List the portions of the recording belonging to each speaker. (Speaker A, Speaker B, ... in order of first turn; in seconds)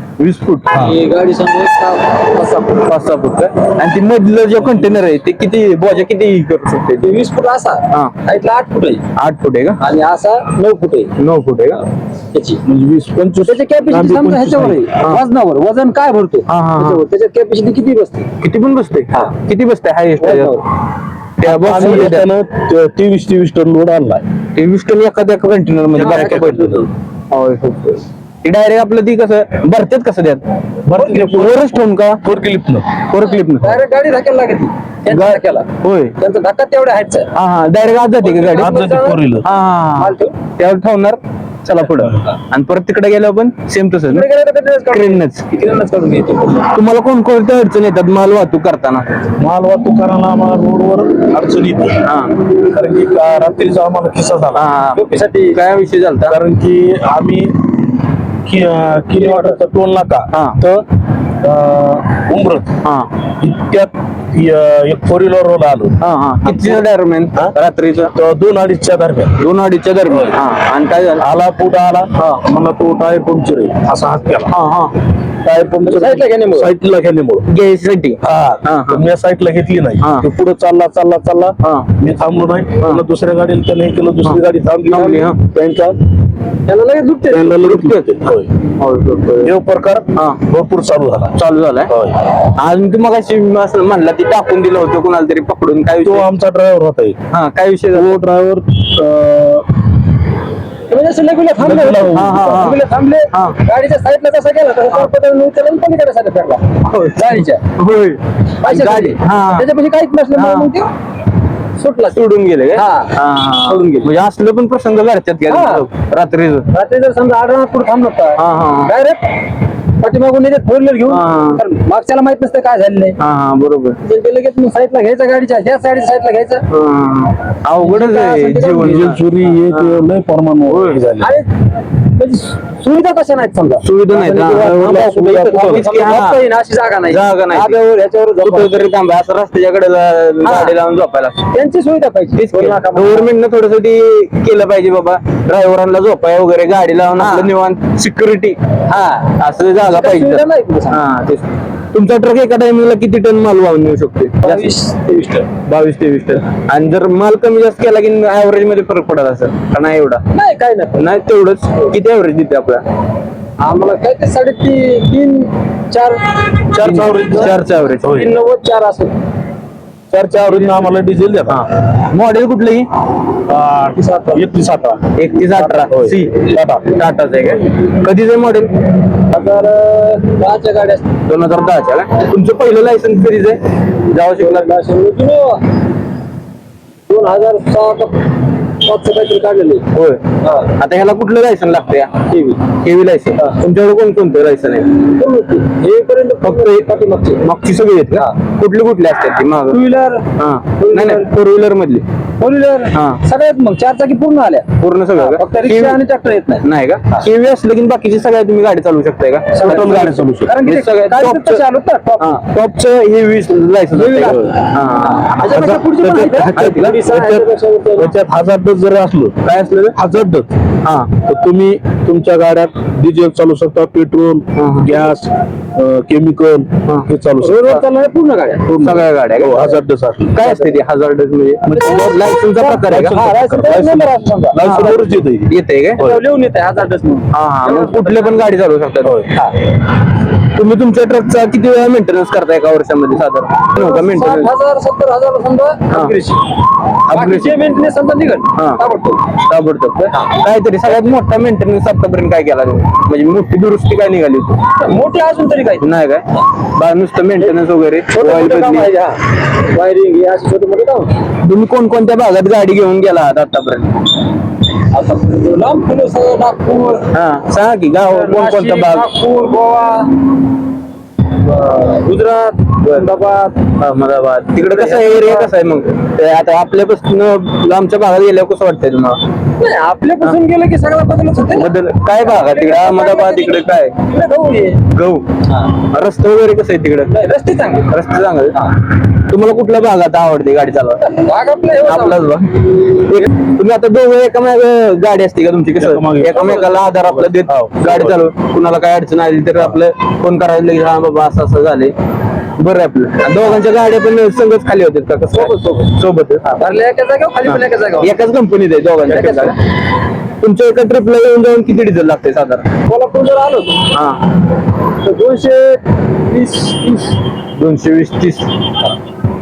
Speaker A: 0.2-0.7, 2.8-7.1, 9.2-9.8, 11.2-11.8, 16.5-17.0, 18.4-20.6, 21.4-22.3, 24.6-26.8, 27.3-30.4, 31.2-32.2, 33.1-33.8, 35.1-36.1, 37.4-38.7, 39.4-44.3, 44.9-45.4, 46.7-49.2, 52.0-52.3, 54.5-55.0, 55.5-56.4, 60.3-60.6, 66.0-68.1, 69.4-71.3, 74.5-74.9, 77.5-79.0, 80.0-80.3, 81.6-81.9, 84.9-85.4, 87.7-88.0, 88.8-89.5, 90.2-90.4, 91.4-91.9, 92.6-96.3, 97.3-98.2, 102.1-102.8, 103.3-103.6, 106.8-109.7, 110.3-110.7, 112.1-116.7, 118.4-118.9, 121.1-121.6, 123.2-124.0, 126.7-130.1, 130.7-131.0, 133.8-136.4, 137.1-137.8, 138.4-141.4, 142.4-148.6, 149.3-154.7, 155.7-160.2, 161.0-162.8, 166.8-168.1, 171.5-172.9, 175.2-178.7, 181.3-183.6, 184.1-184.7, 189.9-190.2, 190.8-192.1, 192.8-194.9, 196.4-196.9, 197.4-199.8, 200.4-202.0, 202.9-203.2, 204.8-206.0, 206.6-211.6, 212.2-217.0, 219.4-220.0, 220.8-221.1, 224.6-225.1, 228.8-229.7, 230.3-233.2, 234.6-236.0, 237.3-239.3, 240.4-244.5, 247.1-247.6, 249.4-254.6, 255.8-256.2, 256.8-258.9, 261.4-264.0, 267.1-269.1, 273.8-279.2, 281.5-283.9, 284.9-285.2, 285.9-287.1, 287.9-288.6, 289.3-291.0, 291.8-301.9, 302.6-306.4, 307.5-309.6, 310.4-312.6, 313.9-314.2, 317.6-318.5
Speaker B: 0.7-2.9, 7.0-9.0, 9.8-11.1, 12.3-12.6, 13.4-18.3, 20.2-20.6, 21.7-22.1, 25.9-26.9, 31.0-31.4, 33.6-37.3, 38.2-39.2, 40.0-40.4, 44.1-46.7, 55.0-55.6, 59.2-59.6, 75.8-76.7, 86.7-87.7, 100.9-107.6, 108.6-110.9, 111.8-112.2, 112.7-114.1, 115.5-115.9, 116.7-119.2, 120.0-123.2, 124.0-126.6, 127.8-129.2, 131.2-131.5, 132.1-138.8, 140.4-140.8, 141.5-143.3, 147.2-147.5, 148.9-149.3, 149.8-151.0, 154.4-155.5, 160.3-161.1, 163.6-166.2, 166.8-169.2, 170.5-170.8, 174.0-174.5, 179.3-181.1, 184.4-185.6, 187.1-188.2, 188.8-189.8, 190.4-190.7, 192.3-192.7, 195.0-197.4, 199.7-201.3, 202.4-206.6, 209.5-212.4, 213.9-218.1, 227.4-228.7, 230.4-230.8, 231.8-235.0, 236.0-238.5, 243.7-246.4, 247.1-249.2, 250.1-250.4, 254.8-255.9, 258.1-261.1, 264.9-267.1, 268.0-270.1, 271.4-273.6, 274.7-275.5, 279.6-284.8, 287.1-287.9, 291.0-292.3, 305.3-305.9, 306.4-308.1, 309.1-309.6, 312.9-313.9, 315.0-317.2
Speaker C: 12.7-14.8, 21.4-24.2, 25.9-26.9, 30.9-32.9, 38.6-39.5, 49.4-52.0, 52.6-54.6, 56.3-57.9, 58.5-60.8, 61.4-62.7, 63.4-66.8, 68.1-69.4, 70.1-70.4, 71.2-74.5, 75.4-77.5, 78.2-86.0, 87.3-88.5, 89.4-91.3, 91.9-92.2, 96.0-97.2, 97.9-99.7, 101.6-102.8, 128.8-131.3, 134.5-136.0, 166.7-168.3, 170.1-171.6, 173.5-175.1, 175.7-176.9, 209.6-210.5, 215.4-216.0, 216.6-219.3, 220.0-220.5, 221.2-227.7, 228.7-230.4, 231.7-232.3, 232.8-236.2, 295.8-298.2